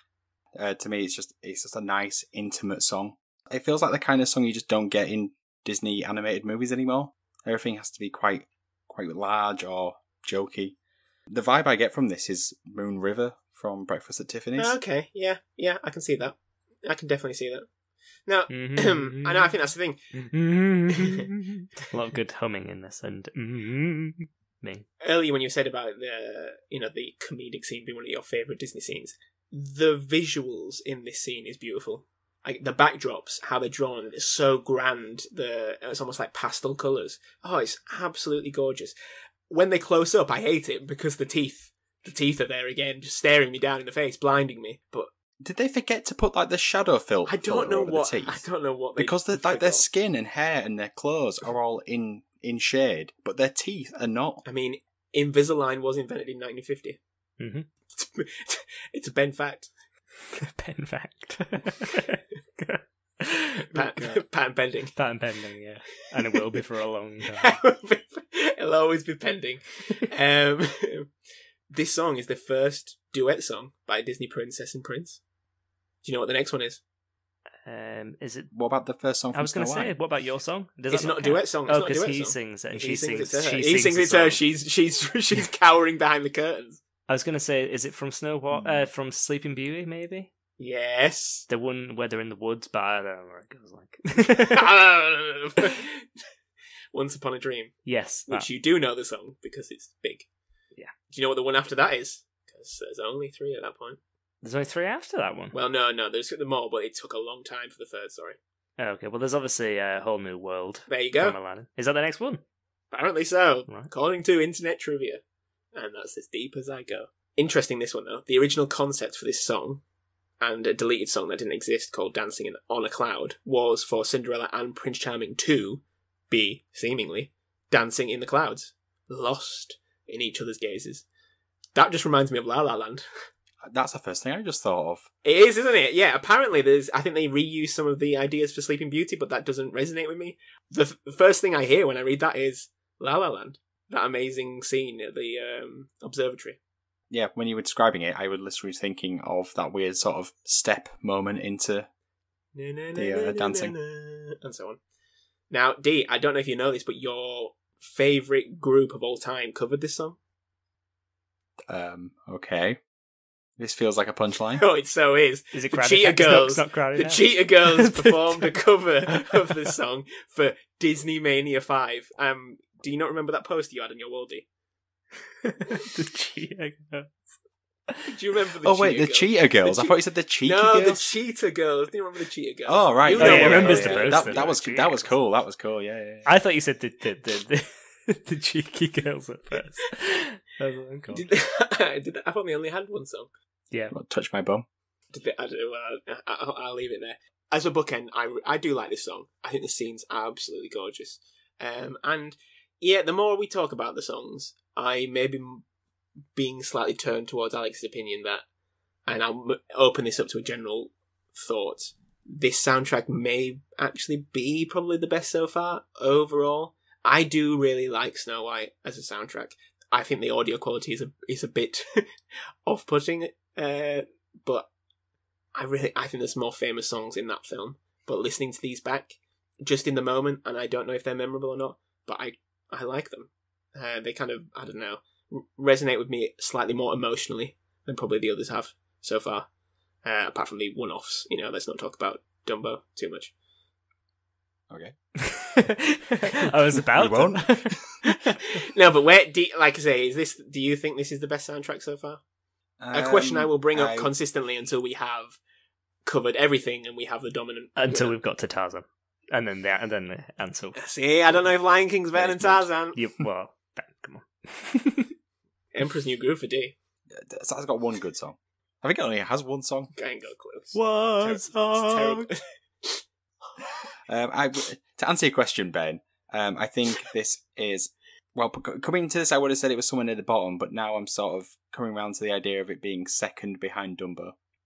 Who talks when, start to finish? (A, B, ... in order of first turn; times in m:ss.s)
0:00.5-0:10.7 A
0:11.3-0:14.8 A
0:14.6-0:17.7 B
0:18.3-0:20.0 B
0:18.5-0:19.5 C
0:20.1-0:24.8 C
0:20.9-0:21.3 B
0:25.0-0:38.9 B
0:39.5-0:45.1 B
0:45.4-0:48.4 A
0:47.2-0:49.8 B
0:49.0-0:54.4 A
0:54.4-0:57.0 B
0:57.4-0:57.7 C
0:57.9-0:59.7 B
1:00.3-1:04.2 C
1:03.7-1:04.9 B
1:04.9-1:07.6 C
1:07.4-1:11.1 B
1:11.7-1:15.2 B
1:16.0-1:16.8 B
1:17.6-1:18.5 C
1:18.5-1:19.9 A
1:19.3-1:24.4 C
1:20.9-1:26.8 B
1:27.1-1:30.3 C
1:28.5-1:28.9 A
1:30.6-1:31.5 B
1:31.5-1:34.7 C
1:34.4-1:36.1 B
1:36.9-1:37.8 B
1:37.8-1:38.5 C
1:38.3-1:40.3 B
1:41.1-1:44.0 B
1:44.4-1:45.5 C
1:45.5-1:48.4 B
1:48.8-1:52.4 C
1:50.9-1:51.4 B
1:52.9-1:55.2 B
1:55.7-1:59.8 B
2:00.4-2:11.0 B
2:11.7-2:13.0 B
2:13.6-2:15.1 A
2:15.2-2:26.6 B
2:27.1-2:31.9 A
2:32.5-2:34.8 B
2:32.9-2:33.7 A
2:35.5-2:40.2 B
2:41.7-2:42.8 A
2:43.6-2:44.6 A
2:44.6-2:54.4 B
2:45.5-2:49.7 C
2:55.4-2:57.1 C
2:58.0-3:04.5 B
2:58.6-3:01.1 A
3:02.7-3:06.3 A
3:03.1-3:05.1 C
3:06.2-3:11.2 C
3:11.1-3:13.3 B
3:13.9-3:14.6 A
3:15.1-3:25.6 B
3:26.3-3:28.4 B
3:29.1-3:42.0 B
3:42.6-3:44.7 B
3:45.5-3:59.5 B
4:00.0-4:03.3 B
4:04.7-4:04.9 A
4:05.2-4:07.8 C
4:06.7-4:07.9 A
4:08.3-4:12.2 B
4:12.8-4:14.1 A
4:12.9-4:15.4 B
4:16.0-4:18.1 B
4:17.8-4:20.8 C
4:20.8-4:23.0 B
4:22.2-4:25.1 C
4:25.7-4:26.8 B
4:27.1-4:29.9 A
4:29.9-4:33.0 B
4:30.7-4:32.3 C
4:34.1-4:44.3 A